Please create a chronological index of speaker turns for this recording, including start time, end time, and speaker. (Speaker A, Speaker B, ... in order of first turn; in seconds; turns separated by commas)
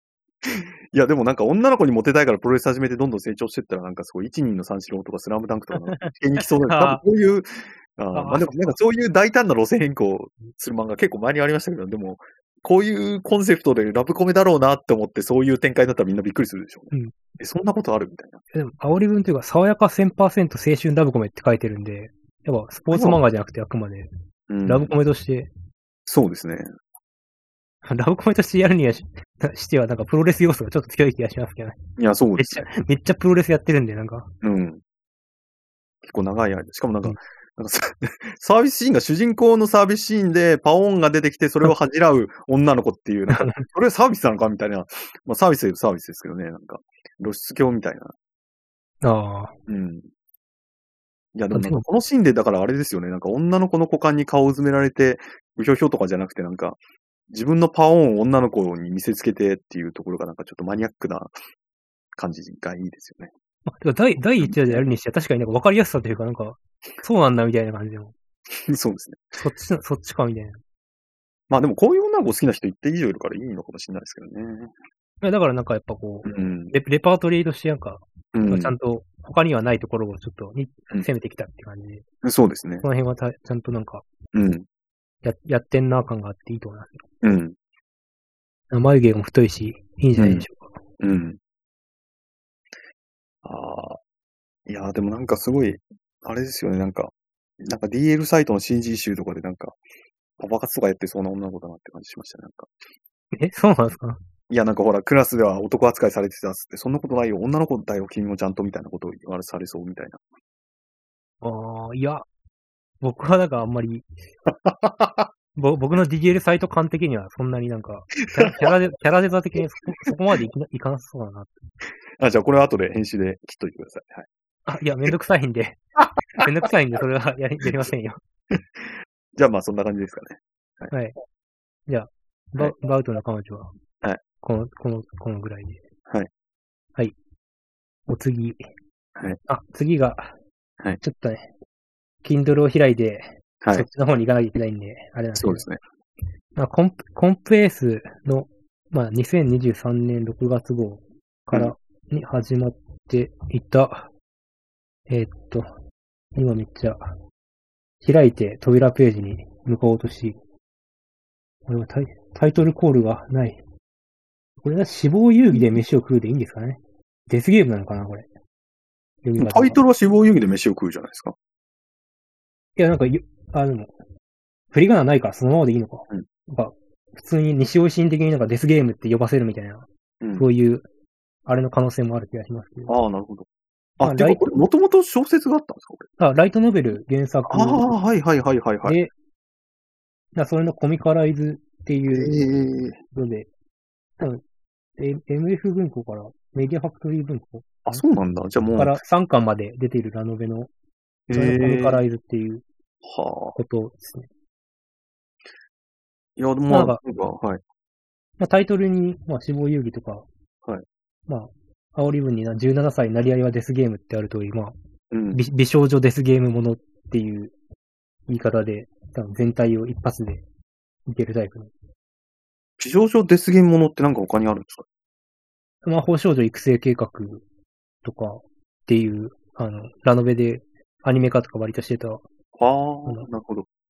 Speaker A: 0.5-18.4, Speaker B: 5.7-7.0, Speaker B: 8.1-8.8, Speaker B: 18.5-24.1, Speaker A: 22.9-23.2, Speaker A: 24.5-24.9, Speaker B: 24.6-25.5, Speaker A: 26.1-26.7, Speaker B: 27.9-31.8, Speaker A: 32.0-32.7, Speaker B: 32.4-34.3, Speaker A: 34.4-34.8, Speaker A: 36.0-48.1, Speaker B: 43.3-43.7, Speaker B: 49.0-49.5, Speaker A: 49.7-50.1, Speaker A: 51.4-61.4, Speaker B: 51.5-51.9, Speaker A: 62.2-63.3, Speaker B: 63.7-68.1, Speaker A: 64.4-64.8, Speaker A: 68.7-69.3, Speaker B: 69.3-70.6, Speaker A: 71.5-74.7, Speaker B: 75.2-82.1, Speaker A: 76.2-76.8, Speaker A: 78.3-78.7, Speaker A: 82.2-82.9, Speaker B: 82.8-84.1, Speaker A: 84.3-84.7, Speaker B: 85.2-87.1, Speaker A: 87.2-87.6, Speaker B: 88.7-90.8, Speaker A: 90.2-90.5, Speaker A: 91.0-91.4, Speaker A: 93.4-94.0, Speaker A: 94.7-99.8, Speaker A: 100.4-102.7, Speaker B: 103.3-104.2, Speaker A: 104.5-110.2, Speaker B: 111.4-112.3, Speaker B: 113.0-114.1, Speaker A: 114.5-115.3, Speaker B: 115.5-121.6, Speaker A: 118.4-118.7, Speaker A: 122.2-124.3, Speaker B: 124.7-125.8, Speaker B: 126.4-128.2, Speaker A: 128.5-130.9, Speaker B: 130.9-131.2, Speaker B: 131.9-133.7, Speaker B: 134.4-135.8, Speaker B: 138.1-138.7, Speaker B: 139.5-140.3, Speaker B: 141.0-141.5, Speaker B: 142.2-145.7, Speaker A: 143.6-143.9, Speaker A: 145.4-145.8, Speaker B: 146.6-154.1, Speaker B: 155.1-155.7, Speaker B: 156.3-157.2, Speaker B: 158.0-160.4, Speaker B: 161.7-163.6, Speaker B: 164.6-168.3, Speaker B: 169.2-169.8, Speaker A: 169.4-171.3, Speaker B: 172.8-174.0, Speaker B: 174.7-180.8, Speaker A: 180.2-180.5, Speaker B: 181.5-182.9, Speaker A: 182.9-183.5, Speaker A: 184.0-186.1, Speaker B: 184.0-184.5, Speaker B: 186.2-187.9, Speaker A: 187.5-189.0, Speaker B: 188.8-189.1, Speaker B: 190.3-192.4, Speaker A: 192.1-193.0, Speaker B: 193.1-193.5, Speaker B: 195.0-198.0, Speaker A: 197.9-199.0, Speaker B: 198.8-200.7, Speaker A: 201.3-202.0, Speaker B: 201.3-202.7, Speaker A: 203.0-203.6, Speaker B: 203.6-204.3, Speaker A: 206.4-207.6, Speaker B: 206.7-207.0, Speaker B: 208.4-210.3, Speaker B: 211.3-214.8, Speaker A: 215.1-215.4, Speaker B: 215.3-217.6, Speaker B: 218.3-220.4, Speaker B: 221.1-221.7, Speaker A: 222.8-224.9, Speaker B: 225.8-227.4, Speaker B: 228.0-232.2, Speaker A: 232.6-233.7